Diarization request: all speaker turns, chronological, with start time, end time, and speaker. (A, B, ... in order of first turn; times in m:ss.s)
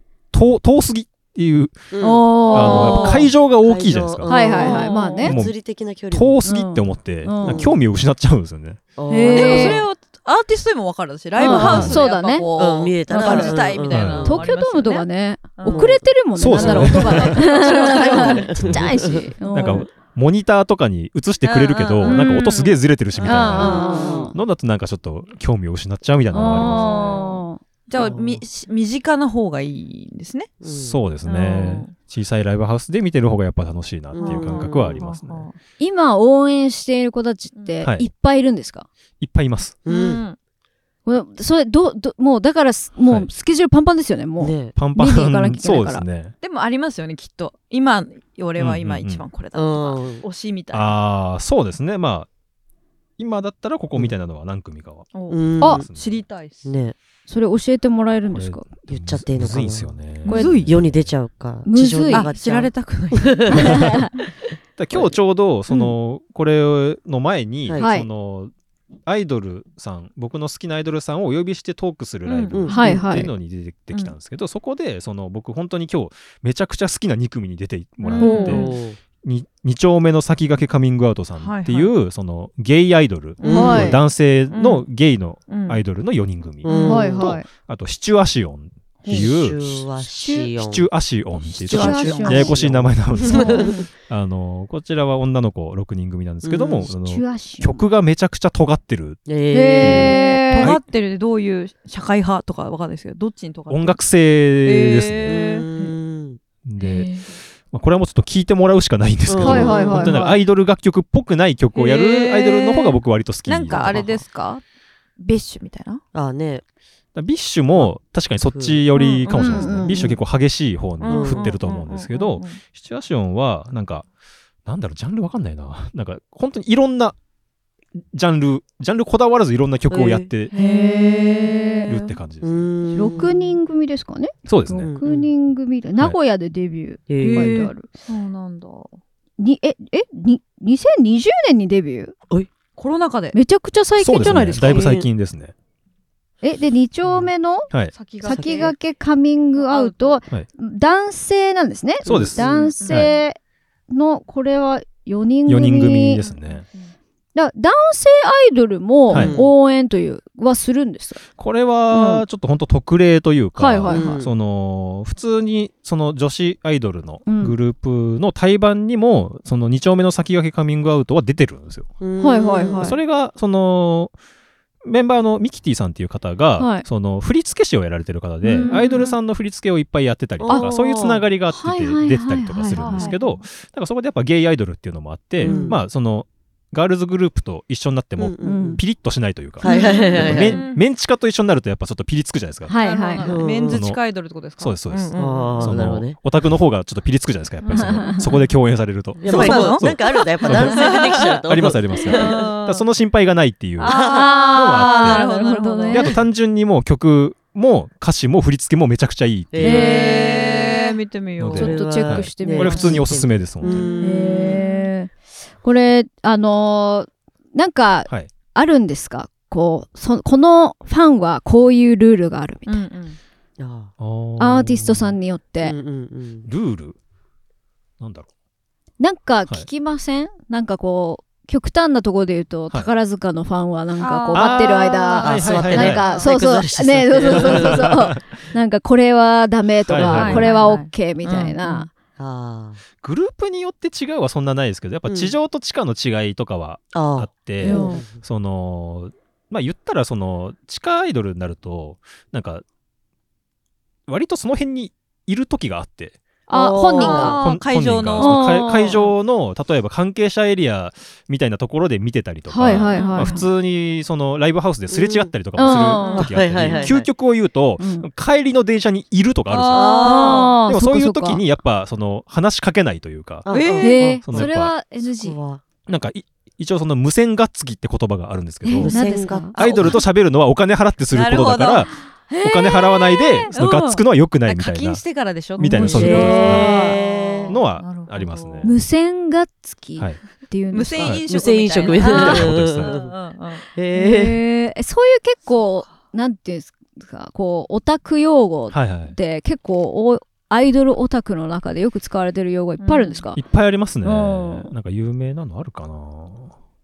0:00.3-0:04.6 A
0:01.9-0:03.0 B
0:02.0-0:03.3 C
0:02.4-0:03.3 D
0:03.6-0:06.4 B
0:04.3-0:05.4 C
0:04.6-0:05.3 D
0:05.2-0:05.6 A
0:06.1-0:08.8 A
0:06.4-0:07.7 C
0:07.4-0:07.8 B
0:09.0-0:09.8 B
0:09.1-0:09.8 C
0:09.3-0:15.1 D
0:11.4-0:12.5 C
0:11.5-0:12.0 B
0:11.5-0:12.0 A
0:12.6-0:14.4 B
0:13.1-0:19.9 C
0:13.9-0:14.4 A
0:15.6-0:16.0 D
0:15.7-0:19.3 B
0:16.4-0:17.5 A
0:16.6-0:18.5 D
0:18.6-0:27.2 A
0:21.4-0:22.8 D
0:22.0-0:22.6 C
0:23.2-0:24.4 C
0:23.3-0:24.3 B
0:23.5-0:24.0 D
0:26.3-0:27.6 C
0:26.5-0:30.5 D
0:28.0-0:28.4 B
0:30.6-0:31.0 B
0:30.7-0:35.5 A
0:31.2-0:31.9 D
0:34.1-0:35.0 B
0:34.2-0:35.6 D
0:35.8-0:38.9 C
0:37.8-0:38.1 A
0:39.2-0:39.8 A
0:39.8-0:40.2 B
0:39.9-0:40.4 D
0:41.1-0:46.0 C
0:44.4-0:44.8 B
0:44.8-0:46.3 A
0:46.4-0:51.0 D
0:48.6-0:49.2 A
0:49.5-0:50.2 B
0:50.7-0:52.3 A
0:53.2-0:56.2 A
0:55.1-0:56.7 D
0:55.3-0:55.9 B
0:56.6-0:57.0 B
0:57.3-0:58.6 C
0:58.3-1:01.2 A
0:58.9-0:59.9 B
1:00.2-1:00.7 D
1:00.3-1:00.6 C
1:00.6-1:04.1 B
1:01.6-1:02.3 C
1:02.1-1:03.9 D
1:03.5-1:04.1 C
1:03.7-1:04.0 A
1:04.8-1:08.5 A
1:07.8-1:08.1 C
1:09.1-1:18.7 A
1:12.2-1:12.9 D
1:12.5-1:13.1 B
1:12.7-1:13.3 C
1:18.0-1:18.8 D
1:18.2-1:18.7 C
1:18.4-1:19.0 B
1:19.2-1:29.8 A
1:21.4-1:21.9 D
1:23.4-1:24.0 B
1:23.5-1:24.0 C
1:24.5-1:24.9 D
1:25.5-1:25.8 D
1:26.6-1:27.4 B
1:26.7-1:27.4 D
1:26.8-1:27.4 C
1:29.1-1:30.9 B
1:30.2-1:30.5 C
1:30.6-1:39.2 A
1:31.6-1:32.6 C
1:31.6-1:33.9 B
1:31.7-1:32.5 D
1:33.2-1:33.9 C
1:33.2-1:33.7 D
1:36.4-1:36.9 B
1:36.9-1:37.8 C
1:39.3-1:40.2 B
1:39.5-1:40.8 C
1:39.8-1:40.8 A
1:39.9-1:44.0 D
1:43.7-1:45.5 A
1:44.6-1:45.9 D
1:45.3-1:46.4 B
1:46.6-1:47.1 A
1:46.8-1:47.2 C
1:47.7-1:54.2 A
1:49.3-1:50.4 B
1:49.4-1:50.2 C
1:51.7-1:54.6 D
1:53.7-1:54.1 B
1:55.2-1:56.0 D
1:56.1-1:56.6 B
1:57.2-2:04.0 A
1:58.5-2:00.2 B
1:58.9-1:59.7 D
1:59.3-2:00.0 C
2:01.0-2:02.6 D
2:01.1-2:01.5 B
2:04.7-2:07.2 A
2:08.0-2:10.5 A
2:09.9-2:10.3 B
2:10.5-2:12.2 D
2:10.5-2:11.9 C
2:11.9-2:12.6 A
2:12.4-2:13.5 B
2:12.9-2:17.9 C
2:14.5-2:14.9 A
2:14.8-2:15.3 B
2:17.1-2:17.7 B
2:17.2-2:19.0 D
2:19.4-2:22.1 C
2:22.8-2:23.4 D
2:23.3-2:25.0 C
2:24.0-2:25.5 A
2:24.5-2:25.1 B
2:26.4-2:27.7 C
2:27.9-2:28.7 D
2:28.2-2:33.4 C
2:28.3-2:28.7 B
2:29.6-2:30.2 D
2:32.0-2:32.8 B
2:32.0-2:33.1 A
2:32.7-2:33.2 D
2:33.9-2:36.2 C
2:35.5-2:36.6 A
2:36.2-2:36.9 D
2:37.4-2:41.2 C
2:39.1-2:39.4 A
2:39.1-2:39.5 B
2:41.4-2:51.9 A
2:41.9-2:42.2 C
2:43.6-2:44.2 C
2:43.9-2:44.3 B
2:47.3-2:47.6 C
2:52.0-2:52.9 B
2:52.2-2:53.0 C
2:52.8-2:54.1 A
2:54.8-3:12.7 A
2:56.6-2:56.9 C
2:58.4-2:59.2 C
2:58.6-2:59.0 D
3:00.4-3:01.2 B
3:01.5-3:03.2 C
3:02.7-3:03.4 D
3:05.4-3:05.8 B
3:05.4-3:05.7 C
3:08.2-3:08.8 B
3:08.4-3:08.8 C
3:09.6-3:10.6 B
3:09.6-3:10.8 D
3:12.7-3:13.4 C
3:12.7-3:15.8 D
3:13.2-3:13.8 B
3:13.6-3:14.0 A
3:14.6-3:23.9 A
3:15.2-3:16.2 B
3:17.6-3:18.5 D
3:17.8-3:18.2 C
3:19.2-3:22.5 B
3:19.2-3:21.4 D
3:22.1-3:22.8 D
3:23.8-3:26.2 D
3:23.8-3:24.3 B
3:23.9-3:26.2 C
3:24.5-3:25.3 A
3:25.9-3:30.0 A
3:29.5-3:30.4 B
3:29.6-3:31.0 C
3:29.7-3:31.8 D
3:31.4-3:33.9 A
3:31.5-3:33.1 C
3:31.6-3:34.6 B
3:33.6-3:34.9 D
3:34.0-3:42.8 C
3:42.7-3:43.2 D
3:43.6-3:43.9 B
3:44.0-3:45.2 A
3:44.4-3:45.8 C
3:45.6-3:46.5 B
3:46.4-3:47.0 A
3:48.0-3:48.3 A
3:49.0-4:01.9 C
3:54.0-3:56.3 D
3:54.3-3:56.0 A
3:55.2-3:57.9 B
3:57.3-3:58.2 A
3:59.9-4:00.5 A
4:00.0-4:01.9 D
4:00.0-4:00.5 B
4:02.2-4:02.8 B
4:03.0-4:12.6 A
4:05.1-4:05.3 B
4:06.9-4:08.2 B
4:07.6-4:08.0 C
4:14.1-4:16.2 A
4:16.5-4:17.4 C
4:16.5-4:17.4 B
4:17.0-4:19.1 D
4:17.4-4:30.0 A
4:18.2-4:19.0 C
4:22.5-4:23.5 C
4:22.9-4:23.4 D
4:24.9-4:27.1 B
4:25.6-4:26.3 C
4:25.9-4:26.9 D
4:27.8-4:28.1 C
4:29.5-4:30.6 D
4:29.7-4:30.5 B
4:30.0-4:31.4 C
4:30.7-4:33.5 A
4:33.4-4:34.5 B
4:33.5-4:34.0 D
4:33.8-4:35.4 C
4:34.2-4:34.7 A
4:35.2-4:35.6 B
4:35.9-4:38.9 A
4:38.6-4:39.6 C
4:38.8-4:40.0 B
4:39.6-4:40.0 D
4:39.6-4:45.0 A
4:41.1-4:41.9 D
4:42.3-4:43.5 C
4:43.5-4:48.8 D
4:45.6-4:46.8 A
4:45.6-4:47.0 C
4:45.9-4:47.6 B
4:47.5-4:48.7 A
4:48.6-4:51.2 C
4:50.7-4:53.6 D
4:51.0-4:51.2 A
4:51.3-4:53.1 B
4:52.0-4:52.4 C
4:52.1-4:52.9 A
4:53.7-4:54.4 B
4:53.9-5:03.4 C
4:58.7-4:59.2 A
5:02.8-5:03.2 D
5:03.4-5:06.5 A
5:04.0-5:04.7 C